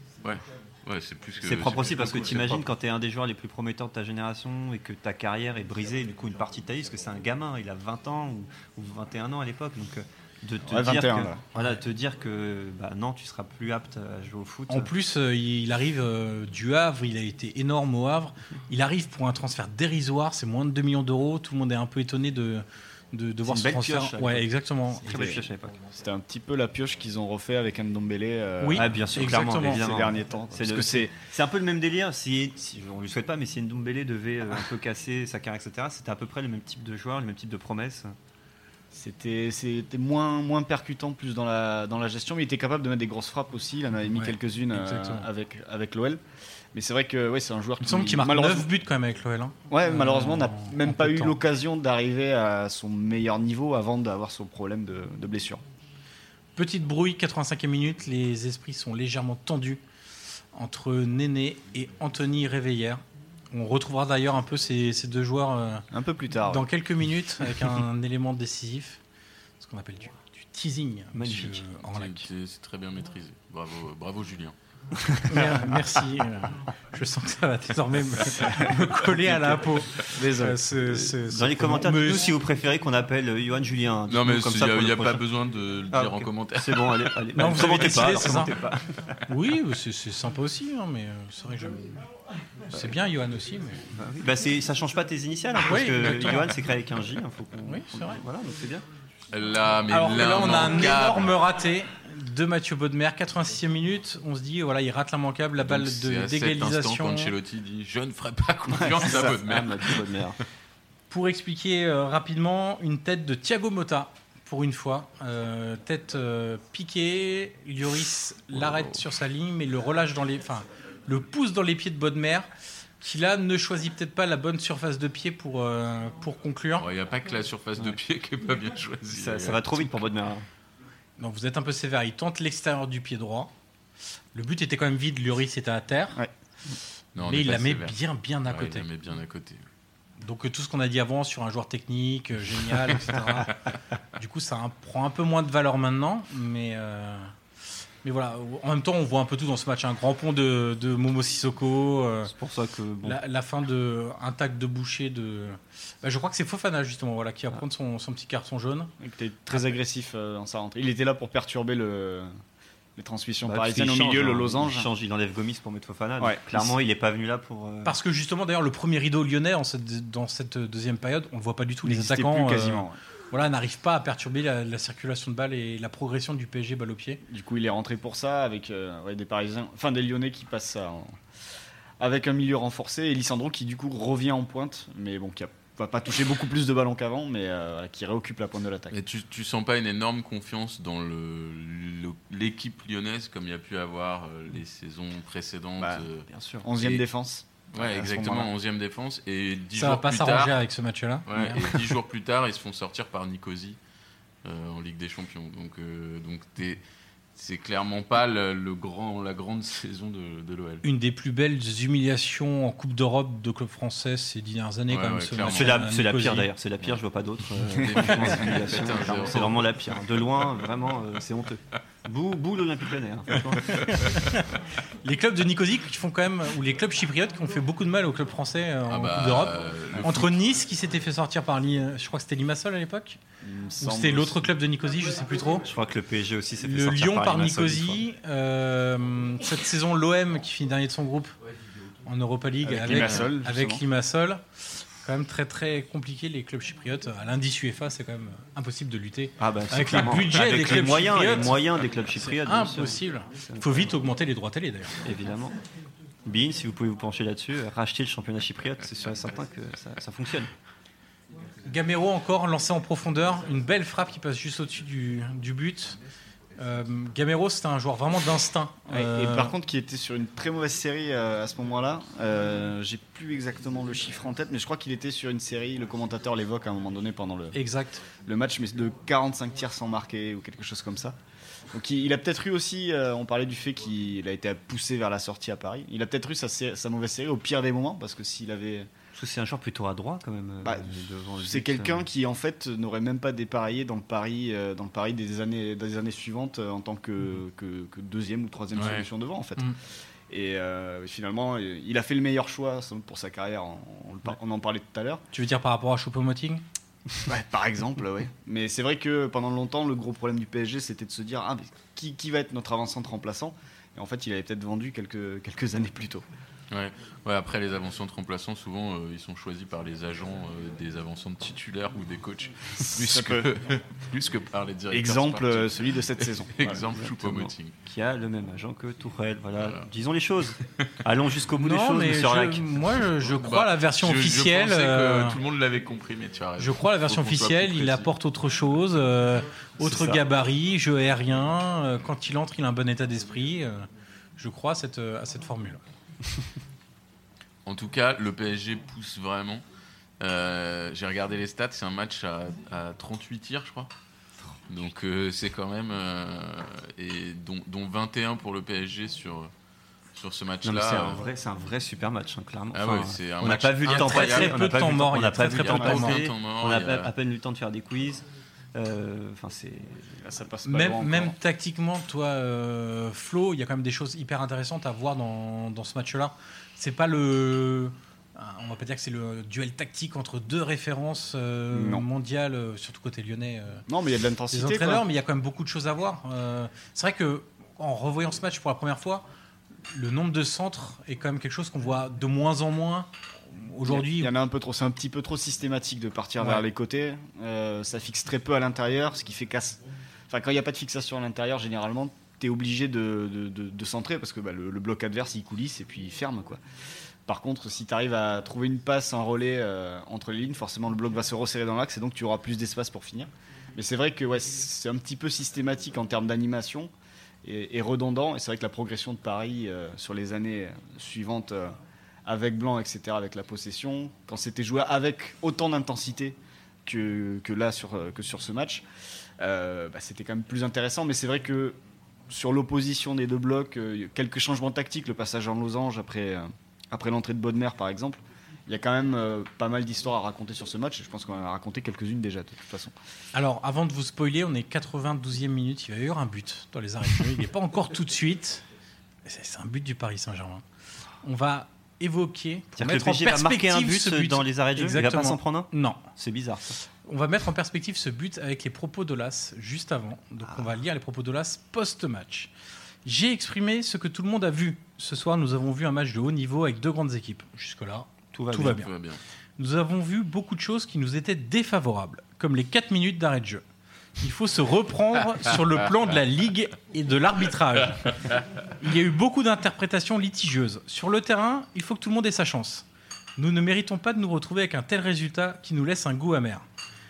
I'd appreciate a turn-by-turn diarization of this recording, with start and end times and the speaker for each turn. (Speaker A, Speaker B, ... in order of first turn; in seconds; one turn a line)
Speaker A: 0.2-2.7
Speaker B: 1.4-14.9
Speaker C: 10.7-11.4
Speaker D: 14.7-25.4
Speaker B: 23.4-25.8
Speaker C: 25.9-31.2
Speaker D: 28.6-30.0
Speaker B: 28.7-38.2
Speaker C: 38.9-46.2
Speaker D: 44.1-45.3
Speaker C: 46.7-48.7
Speaker D: 47.8-51.4
Speaker C: 49.7-55.6
Speaker D: 56.6-59.8
Speaker D: 60.5-65.9
Speaker C: 65.9-66.7
Speaker D: 66.5-69.0
Speaker D: 69.6-72.3
Speaker B: 71.1-71.6
Speaker A: 71.9-74.5
Speaker D: 75.2-82.3
Speaker C: 79.3-79.6
Speaker C: 80.1-80.6
Speaker B: 80.8-85.2
Speaker A: 84.1-87.2
Speaker B: 85.9-88.9
Speaker D: 87.3-88.5
Speaker D: 89.3-92.0
Speaker D: 92.7-93.8
Speaker B: 93.9-98.9
Speaker D: 95.6-96.6
Speaker D: 97.6-98.2
Speaker A: 99.3-101.3
Speaker D: 99.9-107.3
Speaker A: 105.6-110.1
Speaker C: 108.8-109.3
Speaker B: 108.9-110.4
Speaker D: 111.1-122.5
Speaker D: 123.0-126.9
Speaker A: 126.8-129.9
Speaker B: 129.1-130.5
Speaker D: 131.2-133.5
Speaker D: 134.3-136.2
Speaker A: 137.2-138.0
Speaker D: 137.2-138.9
Speaker A: 138.5-139.6
Speaker D: 140.2-143.6
Speaker D: 144.2-147.3
Speaker D: 148.0-152.3
Speaker B: 152.2-153.2
Speaker D: 153.0-158.9
Speaker C: 159.0-162.3
Speaker C: 163.0-164.9
Speaker B: 163.4-168.0
Speaker C: 166.2-166.7
Speaker D: 167.8-177.2
Speaker C: 171.8-173.0
Speaker C: 177.3-181.2
Speaker C: 182.0-189.0
Speaker A: 188.9-196.3
Speaker C: 195.8-196.1
Speaker B: 196.3-196.7
Speaker C: 196.6-198.5
Speaker A: 196.8-197.0
Speaker A: 197.7-200.6
Speaker D: 199.8-201.7
Speaker A: 201.3-203.8
Speaker A: 204.4-206.8
Speaker A: 207.3-210.8
Speaker D: 210.8-216.5
Speaker A: 214.9-215.8
Speaker B: 215.5-224.1
Speaker A: 217.7-219.7
Speaker A: 223.6-224.4
Speaker D: 223.7-224.5
Speaker D: 225.0-233.2
Speaker A: 228.9-230.3
Speaker C: 233.4-234.5
Speaker D: 233.8-235.7
Speaker B: 235.6-238.0
Speaker D: 236.6-241.4
Speaker D: 242.1-255.1
Speaker C: 242.6-243.8
Speaker A: 242.9-243.3
Speaker B: 249.4-254.0
Speaker B: 255.0-255.6
Speaker B: 256.2-260.5
Speaker D: 261.6-266.0
Speaker D: 266.6-269.5
Speaker C: 268.9-277.6
Speaker D: 277.5-278.1
Speaker C: 278.2-281.2
Speaker C: 281.7-288.9
Speaker B: 289.1-292.1
Speaker C: 290.6-299.7
Speaker A: 298.8-299.1
Speaker C: 300.3-305.2
Speaker D: 305.3-306.6
Speaker C: 307.2-316.2
Speaker A: 316.7-327.8
Speaker C: 322.9-323.5
Speaker C: 324.9-326.8
Speaker B: 326.8-333.0
Speaker A: 329.6-329.9
Speaker D: 331.6-335.4
Speaker A: 333.4-338.1
Speaker D: 336.6-345.8
Speaker B: 339.8-340.2
Speaker A: 347.6-349.6
Speaker A: 350.2-353.9
Speaker A: 354.7-359.5
Speaker A: 360.2-361.2
Speaker B: 360.6-370.2
Speaker A: 362.7-367.1
Speaker D: 363.9-366.2
Speaker C: 370.2-371.4
Speaker D: 370.7-383.9
Speaker C: 381.7-382.1
Speaker C: 383.9-385.1
Speaker D: 384.5-389.3
Speaker D: 389.9-394.3
Speaker C: 393.9-406.6
Speaker D: 396.4-396.7
Speaker C: 407.3-416.9
Speaker C: 417.4-428.8
Speaker C: 429.4-431.8
Speaker C: 432.3-442.9
Speaker D: 443.3-448.6
Speaker D: 449.2-450.6
Speaker D: 451.2-456.1
Speaker B: 452.8-456.8
Speaker D: 457.1-462.5
Speaker B: 460.4-460.8
Speaker D: 463.1-468.9
Speaker B: 468.3-468.8
Speaker A: 468.7-469.2
Speaker D: 469.6-473.6
Speaker D: 474.2-482.9
Speaker D: 483.4-486.6